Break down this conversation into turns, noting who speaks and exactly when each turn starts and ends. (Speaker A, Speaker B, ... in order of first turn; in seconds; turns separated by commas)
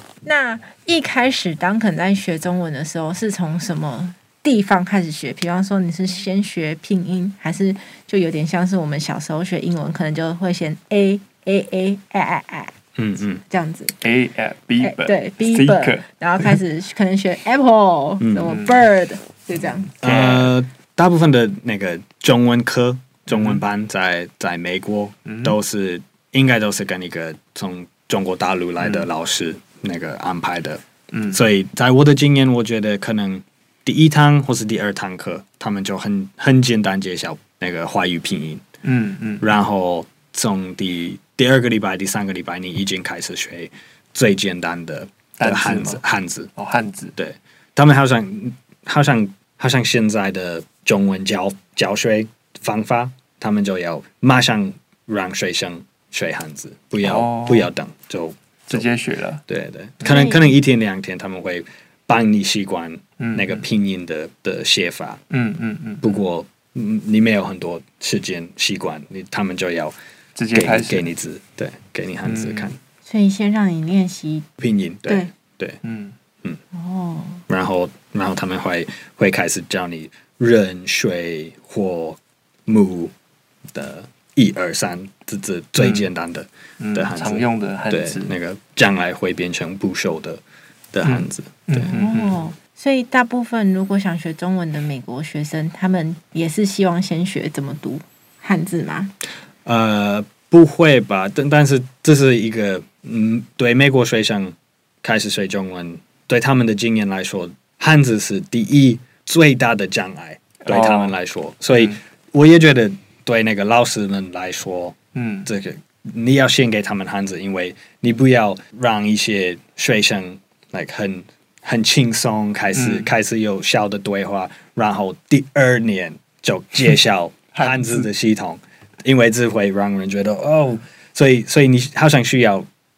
Speaker A: 0.2-12.7, Speaker B: 13.0-13.4, Speaker A: 13.5-13.9, Speaker C: 14.0-16.6, Speaker A: 14.8-19.9, Speaker B: 18.2-18.6, Speaker C: 18.5-18.8, Speaker C: 19.9-20.5, Speaker B: 20.0-38.6, Speaker C: 23.3-23.6, Speaker C: 25.3-25.6, Speaker C: 28.8-29.1, Speaker C: 31.1-31.4, Speaker C: 38.8-39.5, Speaker B: 39.4-46.5, Speaker C: 45.4-46.0, Speaker C: 46.6-47.1, Speaker B: 47.2-58.9, Speaker C: 57.0-57.7, Speaker C: 58.7-59.4, Speaker B: 59.5-65.2, Speaker A: 60.0-60.5, Speaker C: 63.2-63.6, Speaker C: 65.3-66.1, Speaker B: 66.0-70.0, Speaker C: 70.4-71.1, Speaker B: 70.5-72.8, Speaker C: 72.2-72.7, Speaker A: 73.0-74.5, Speaker B: 74.6-75.8, Speaker C: 75.8-76.2, Speaker A: 76.7-77.4, Speaker B: 77.5-83.1, Speaker B: 83.7-90.4, Speaker C: 85.8-86.1, Speaker C: 86.8-88.3, Speaker B: 90.9-91.9, Speaker C: 91.0-92.4, Speaker A: 91.8-99.1, Speaker B: 99.7-132.7, Speaker C: 110.7-111.2, Speaker C: 111.7-112.0, Speaker C: 115.2-115.5, Speaker C: 122.8-123.1, Speaker C: 127.5-128.1